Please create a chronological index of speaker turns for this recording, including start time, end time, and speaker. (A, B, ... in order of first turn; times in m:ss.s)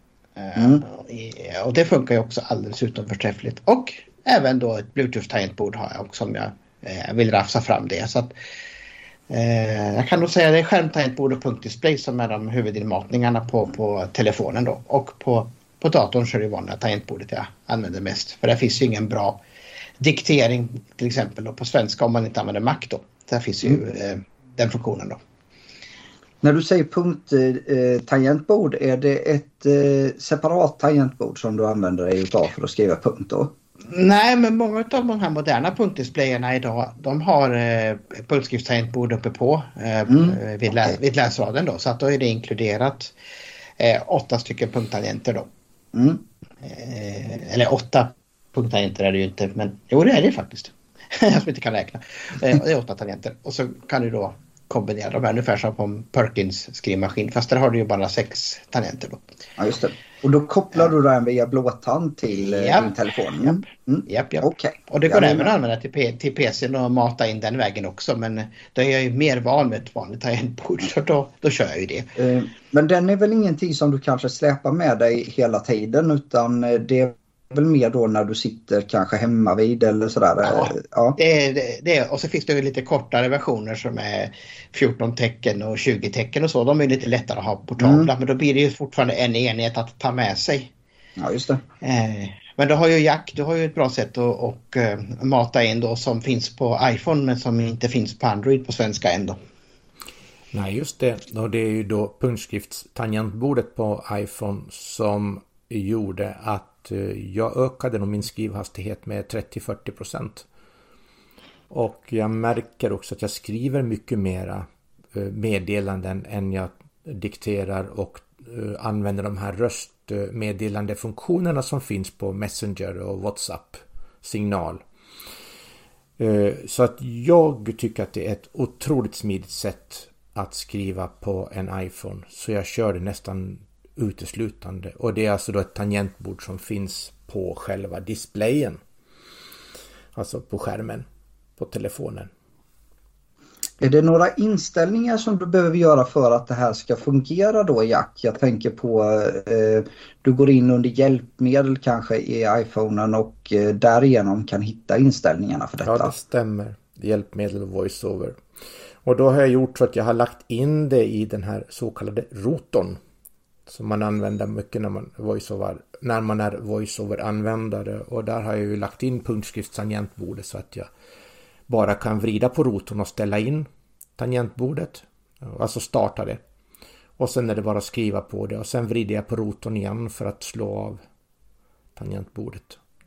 0:00.4-0:08.3 A
0:00.5-0:00.8 B
0:09.3-0:19.4 A
0:20.0-0:25.2 A
0:26.4-0:33.5 B
0:33.9-0:43.1 A
0:40.1-0:41.0 B
0:43.8-0:45.5 A
0:45.9-0:46.2 B
0:46.6-0:59.2 A
0:59.6-1:05.5 B
1:02.3-1:12.1 A
1:12.2-1:21.2 B
1:20.4-1:30.7 A
1:27.8-1:28.1 B
1:31.2-1:31.6 B
1:31.8-1:39.4 A
1:40.5-1:50.4 C
1:51.7-2:04.8 C
2:06.2-2:18.8 C
2:20.1-2:21.0 C
2:21.6-2:22.3 C
2:23.8-2:36.1 B
2:35.8-2:38.4 C
2:39.0-2:43.0 C
2:43.7-2:50.9 C
2:51.7-2:56.4 C
2:57.2-3:01.0 C
3:02.0-3:02.8 C